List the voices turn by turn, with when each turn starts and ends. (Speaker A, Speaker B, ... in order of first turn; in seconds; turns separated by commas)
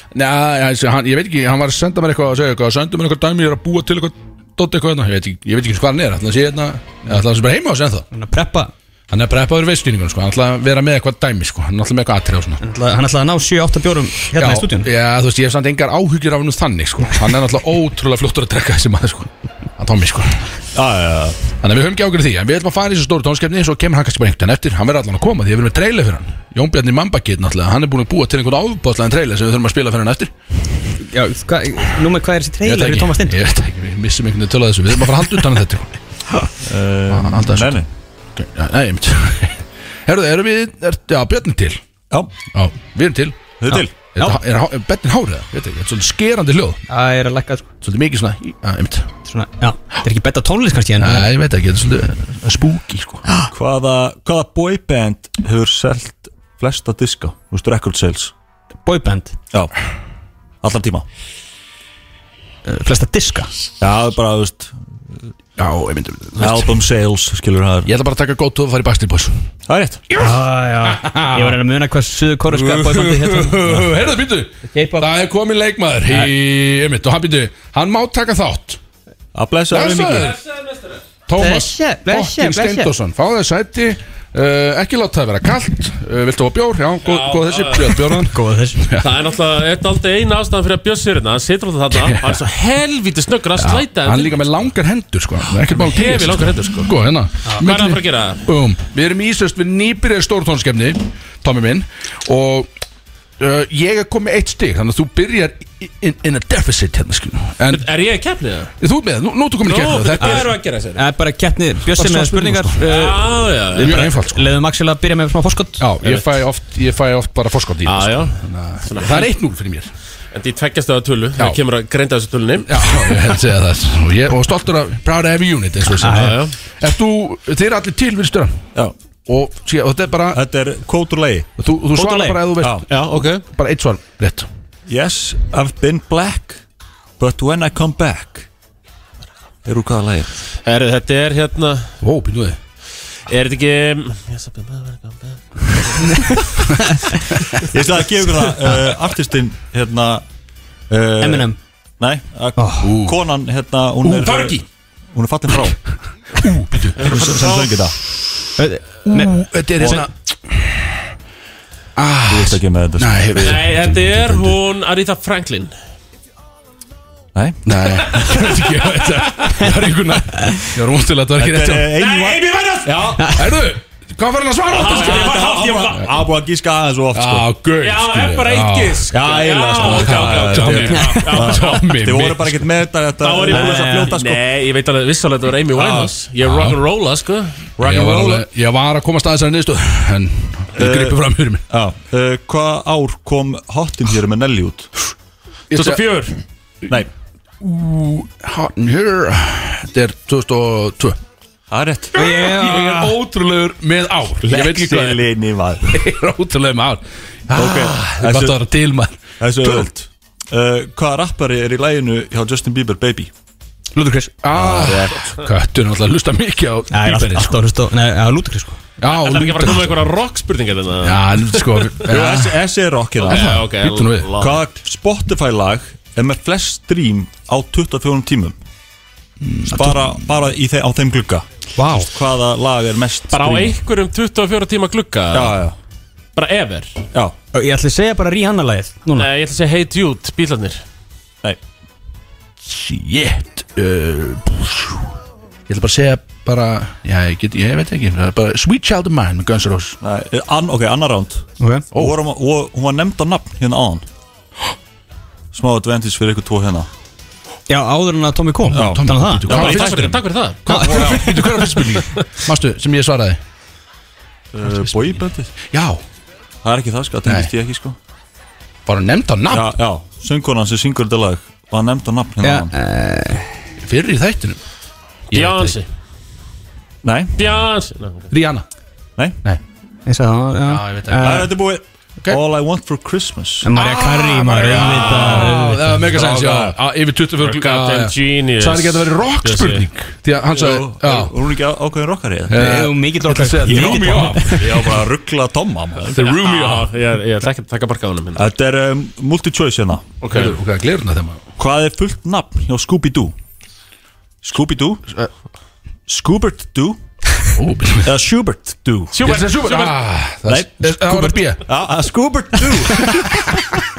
Speaker A: 0.1-8.1, Speaker B: 8.1-8.7, Speaker A: 9.1-12.6, Speaker B: 12.6-14.9, Speaker A: 14.4-20.4, Speaker C: 20.7-21.4, Speaker A: 21.6-30.3, Speaker B: 31.0-33.4, Speaker A: 32.6-36.0, Speaker C: 36.6-37.9, Speaker A: 37.1-41.8, Speaker A: 42.5-43.4, Speaker C: 43.6-43.9, Speaker B: 43.7-44.4, Speaker A: 44.1-46.8, Speaker B: 46.9-47.7, Speaker A: 47.8-49.1, Speaker B: 49.3-51.3, Speaker A: 51.0-53.2, Speaker B: 53.3-53.5, Speaker C: 53.5-58.3, Speaker B: 58.8-59.4, Speaker C: 60.6-61.0, Speaker B: 62.7-63.5, Speaker C: 63.8-64.8, Speaker A: 65.6-66.8, Speaker C: 66.4-67.9, Speaker A: 67.8-69.3, Speaker C: 69.7-70.0, Speaker A: 70.1-71.6, Speaker B: 70.2-73.9, Speaker A: 72.5-78.8, Speaker B: 74.7-75.1, Speaker C: 79.3-80.3, Speaker A: 79.7-80.4, Speaker D: 80.2-81.0, Speaker A: 81.3-89.1, Speaker B: 81.4-82.9, Speaker D: 87.0-88.0, Speaker B: 88.2-88.8, Speaker D: 89.0-94.5, Speaker A: 91.9-92.4, Speaker A: 93.6-102.7, Speaker D: 95.7-96.9, Speaker D: 97.5-98.4, Speaker A: 103.4-107.9, Speaker D: 107.7-108.7, Speaker A: 108.8-110.5, Speaker D: 109.6-111.0, Speaker B: 110.2-113.2, Speaker A: 111.9-113.0, Speaker D: 112.8-114.1, Speaker A: 113.7-114.5, Speaker B: 113.8-115.9, Speaker A: 115.8-119.9, Speaker D: 117.8-119.3, Speaker D: 120.3-123.3, Speaker A: 122.7-128.7, Speaker B: 126.0-126.4, Speaker D: 126.1-126.5, Speaker A: 129.3-130.4, Speaker C: 130.3-131.5, Speaker A: 131.6-134.5, Speaker B: 131.9-132.4, Speaker D: 132.9-133.4, Speaker C: 134.9-136.6, Speaker C: 137.2-138.5, Speaker C: 139.7-140.4, Speaker D: 140.6-141.9, Speaker A: 142.0-142.6, Speaker D: 143.3-146.5, Speaker B: 146.8-147.2, Speaker C: 147.7-150.2, Speaker C: 150.9-155.8, Speaker B: 151.2-151.6, Speaker B: 152.6-152.9, Speaker A: 152.8-153.2, Speaker A: 154.0-154.4, Speaker D: 154.3-154.6, Speaker A: 156.4-157.7, Speaker C: 157.0-158.0, Speaker D: 157.1-157.5, Speaker B: 158.6-160.0, Speaker A: 159.1-161.1, Speaker A: 162.0-163.9, Speaker C: 162.3-164.6, Speaker D: 163.4-165.7, Speaker C: 167.3-167.6, Speaker A: 167.7-171.9, Speaker C: 171.4-173.3, Speaker D: 171.9-173.1, Speaker B: 173.2-173.4, Speaker A: 173.3-176.0, Speaker D: 174.7-176.1, Speaker C: 174.8-177.5, Speaker A: 177.1-179.1, Speaker D: 177.8-182.0, Speaker C: 179.1-184.4, Speaker A: 179.7-182.6, Speaker D: 183.2-187.8, Speaker B: 183.5-184.1, Speaker C: 185.7-186.1, Speaker A: 186.4-186.8, Speaker C: 187.8-188.4, Speaker A: 187.8-191.6, Speaker C: 190.8-194.9, Speaker A: 195.7-196.0, Speaker D: 195.7-196.3, Speaker A: 197.6-201.2, Speaker C: 201.7-202.2, Speaker A: 202.1-205.2, Speaker B: 202.2-203.1, Speaker C: 204.4-206.0, Speaker A: 205.9-209.9, Speaker C: 207.5-208.6, Speaker C: 209.4-213.3, Speaker B: 213.9-214.4, Speaker A: 214.4-217.6, Speaker C: 214.6-215.0, Speaker B: 216.9-218.8, Speaker A: 219.0-220.1, Speaker D: 219.1-221.9, Speaker A: 221.0-222.6, Speaker C: 222.1-223.6, Speaker D: 223.2-224.6, Speaker A: 223.3-224.3, Speaker C: 224.4-228.6, Speaker A: 229.4-230.0, Speaker C: 229.7-233.8, Speaker B: 231.8-232.1, Speaker D: 233.3-235.6, Speaker C: 235.3-235.8, Speaker D: 236.4-237.0, Speaker B: 237.5-239.3, Speaker D: 239.2-240.8, Speaker A: 242.6-245.1, Speaker A: 245.7-250.0, Speaker C: 250.0-254.1, Speaker B: 251.6-251.9, Speaker C: 255.5-256.9, Speaker B: 257.7-259.9, Speaker A: 258.7-263.4, Speaker C: 258.7-259.1, Speaker D: 259.5-261.2, Speaker B: 260.7-261.5, Speaker C: 264.5-265.5, Speaker A: 264.7-266.0, Speaker C: 266.6-268.0, Speaker A: 267.2-267.5, Speaker A: 268.9-269.7, Speaker C: 269.5-272.7, Speaker B: 272.4-273.5, Speaker A: 273.8-274.6, Speaker A: 275.3-275.8, Speaker D: 275.3-275.9, Speaker C: 277.0-277.6, Speaker D: 277.4-278.3, Speaker A: 278.3-278.7, Speaker B: 280.1-281.5, Speaker A: 280.7-281.5, Speaker C: 281.2-283.7, Speaker B: 283.6-286.0, Speaker A: 283.7-291.3, Speaker D: 284.8-285.5, Speaker C: 286.1-286.7, Speaker D: 287.4-289.9, Speaker C: 290.5-292.6, Speaker A: 292.5-295.0, Speaker B: 292.5-294.6, Speaker C: 293.7-296.2, Speaker A: 296.1-296.9, Speaker D: 296.2-298.5, Speaker C: 298.4-300.2, Speaker D: 300.2-300.6, Speaker A: 300.3-301.4, Speaker C: 301.6-303.3, Speaker C: 304.4-305.1, Speaker C: 306.1-307.0, Speaker A: 307.6-308.1, Speaker C: 308.0-309.2, Speaker D: 309.1-310.0, Speaker A: 309.2-311.6, Speaker B: 311.0-311.4, Speaker C: 311.6-313.5, Speaker A: 313.0-313.4